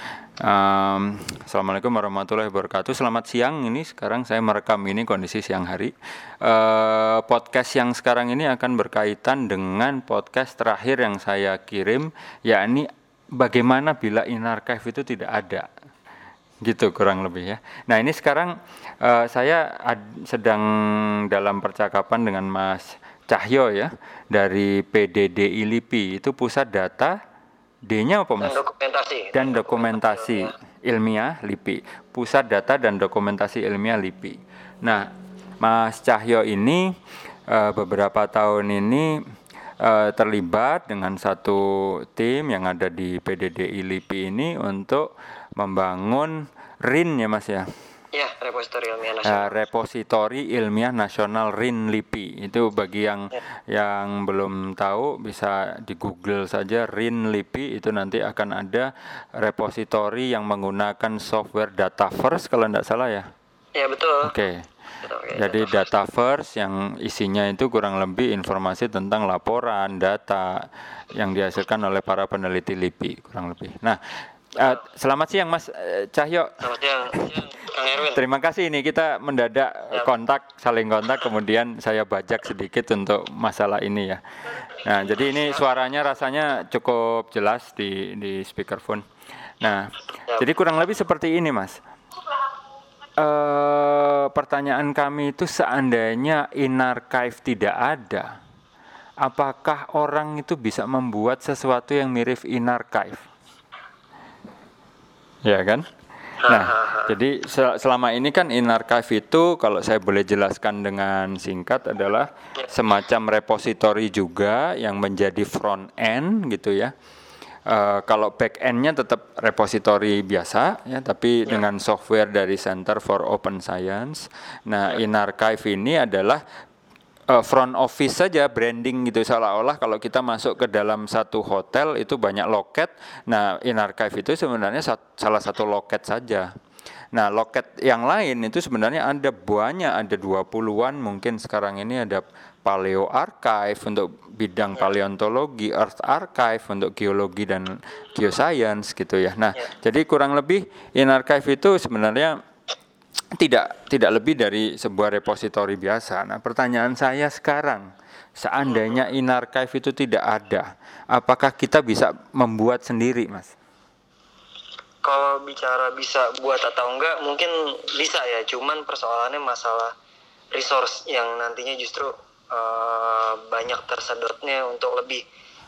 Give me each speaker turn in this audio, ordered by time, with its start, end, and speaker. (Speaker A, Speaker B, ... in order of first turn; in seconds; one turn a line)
Speaker A: 0.4-15.7
Speaker A: 16.6-20.7
Speaker A: 21.3-27.2
Speaker A: 27.9-28.6
Speaker B: 28.4-30.5
Speaker A: 29.3-35.1
Speaker A: 35.6-36.8
Speaker A: 37.5-39.1
Speaker A: 39.8-45.1
Speaker A: 45.6-47.7
Speaker B: 48.1-49.5
Speaker A: 49.2-63.3
Speaker B: 63.8-64.3
Speaker A: 64.2-64.7
Speaker B: 65.0-65.8
Speaker A: 65.4-74.0
Speaker A: 74.6-77.4
Speaker B: 74.6-74.8
Speaker B: 76.6-78.2
Speaker A: 78.0-89.0
Speaker B: 85.1-85.6
Speaker A: 89.6-91.8
Speaker A: 93.2-98.3
Speaker A: 99.2-103.2
Speaker A: 105.5-105.9
Speaker B: 106.4-107.1
Speaker A: 106.4-116.9
Speaker A: 117.7-126.4
Speaker A: 127.3-136.5
Speaker A: 137.1-152.4
Speaker A: 153.4-157.9
Speaker A: 158.4-163.6
Speaker B: 158.7-159.0
Speaker B: 165.0-169.9
Speaker B: 170.5-175.2